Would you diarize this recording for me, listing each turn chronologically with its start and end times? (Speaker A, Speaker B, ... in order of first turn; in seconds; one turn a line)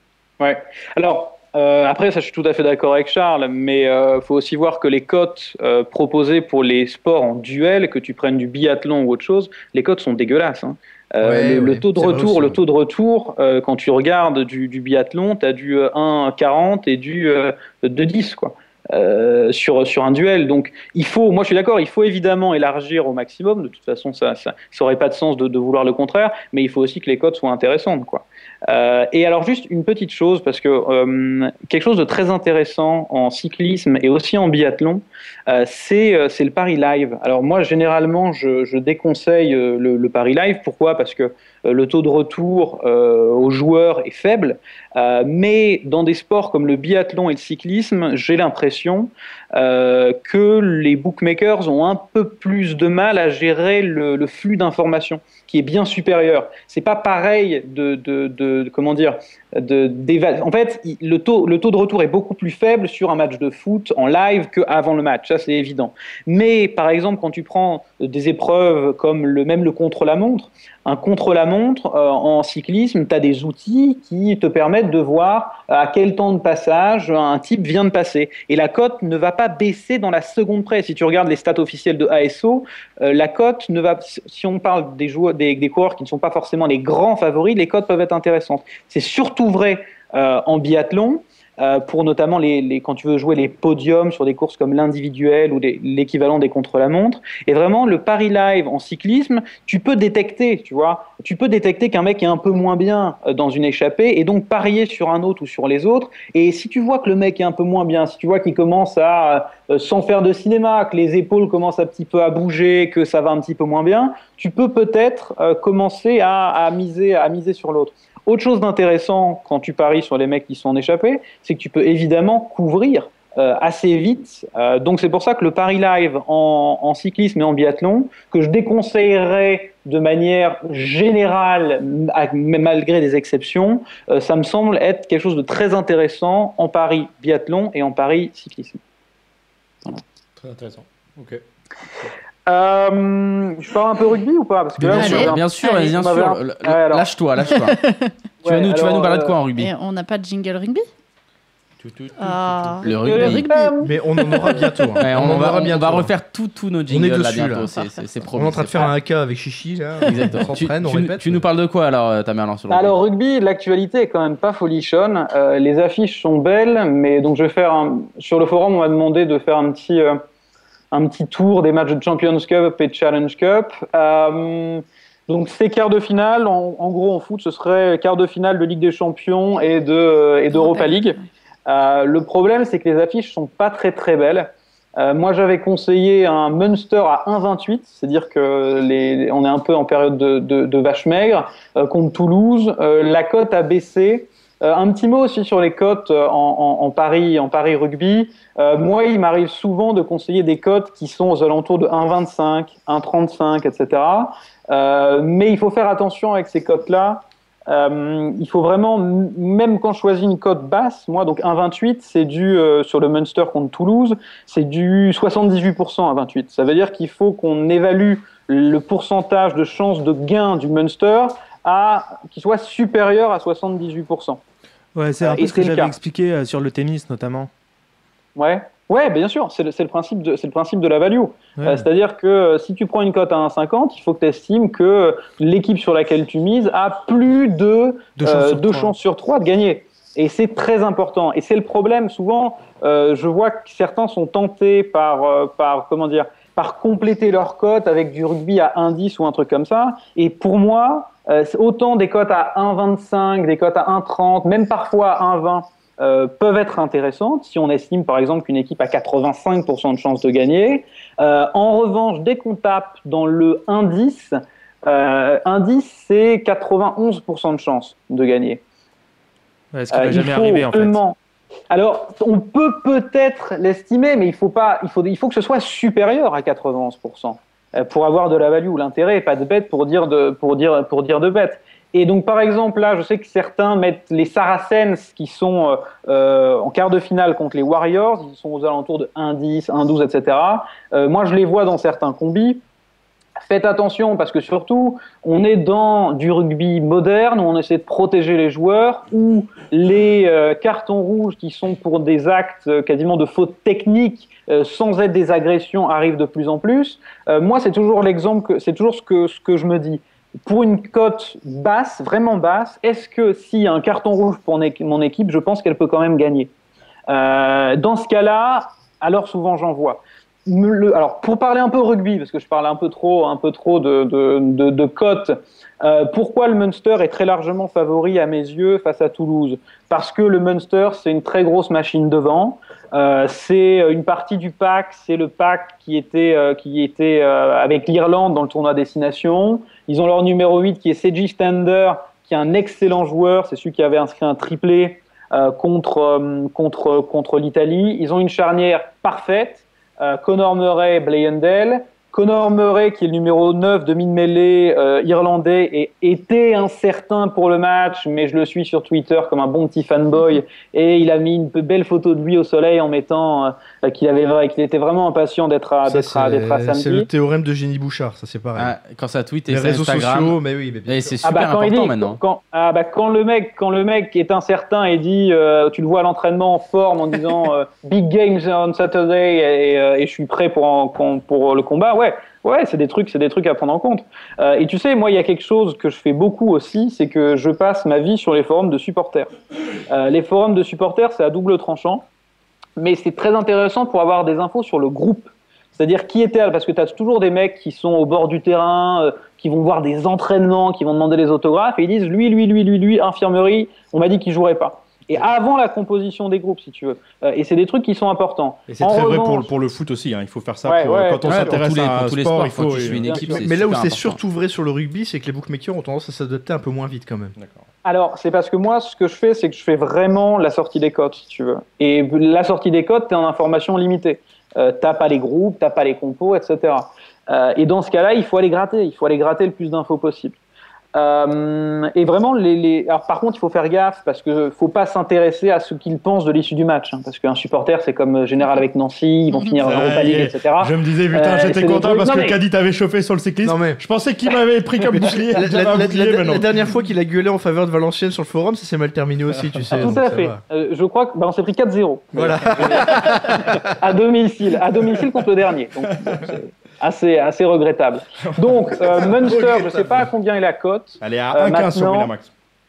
Speaker A: 0.4-138.8
Speaker B: 11.2-12.6
Speaker C: 140.4-141.4
Speaker A: 142.5-147.1
Speaker D: 144.9-147.8
Speaker E: 144.9-145.8
Speaker E: 147.5-148.1
Speaker A: 148.4-149.4
Speaker D: 148.4-149.7
Speaker E: 149.6-150.8
Speaker C: 151.8-152.8
Speaker E: 152.2-154.9
Speaker D: 152.8-153.5
Speaker A: 152.9-154.5
Speaker B: 153.8-156.1
Speaker D: 155.0-158.9
Speaker B: 156.9-157.7
Speaker B: 158.3-161.4
Speaker D: 160.0-163.0
Speaker A: 162.7-170.2
Speaker A: 170.9-224.4
Speaker E: 180.5-181.1
Speaker F: 224.9-227.5
Speaker A: 225.2-225.9
Speaker A: 228.4-268.6
Speaker F: 231.6-231.9
Speaker F: 238.2-238.9
Speaker F: 269.7-271.0
Speaker A: 269.9-271.2
Speaker A: 271.7-292.6
Speaker A: 293.4-316.5
Speaker A: 317.1-367.1
Speaker B: 365.9-368.7
Speaker D: 368.6-372.2
Speaker B: 369.5-371.2
Speaker A: 371.2-389.3
Speaker A: 389.9-392.1
Speaker A: 392.8-409.5
Speaker C: 408.7-413.2
Speaker A: 410.6-411.6
Speaker D: 411.2-414.2
Speaker A: 413.0-413.4
Speaker B: 413.2-417.4
Speaker C: 417.4-417.6
Speaker A: 417.8-430.4
Speaker A: 430.9-442.4
Speaker E: 439.3-439.6
Speaker C: 439.6-446.5
Speaker B: 443.4-443.8
Speaker B: 444.9-450.4
Speaker A: 449.7-462.1
Speaker B: 452.1-453.7
Speaker C: 458.4-460.0
Speaker B: 459.2-459.6
Speaker C: 461.0-462.3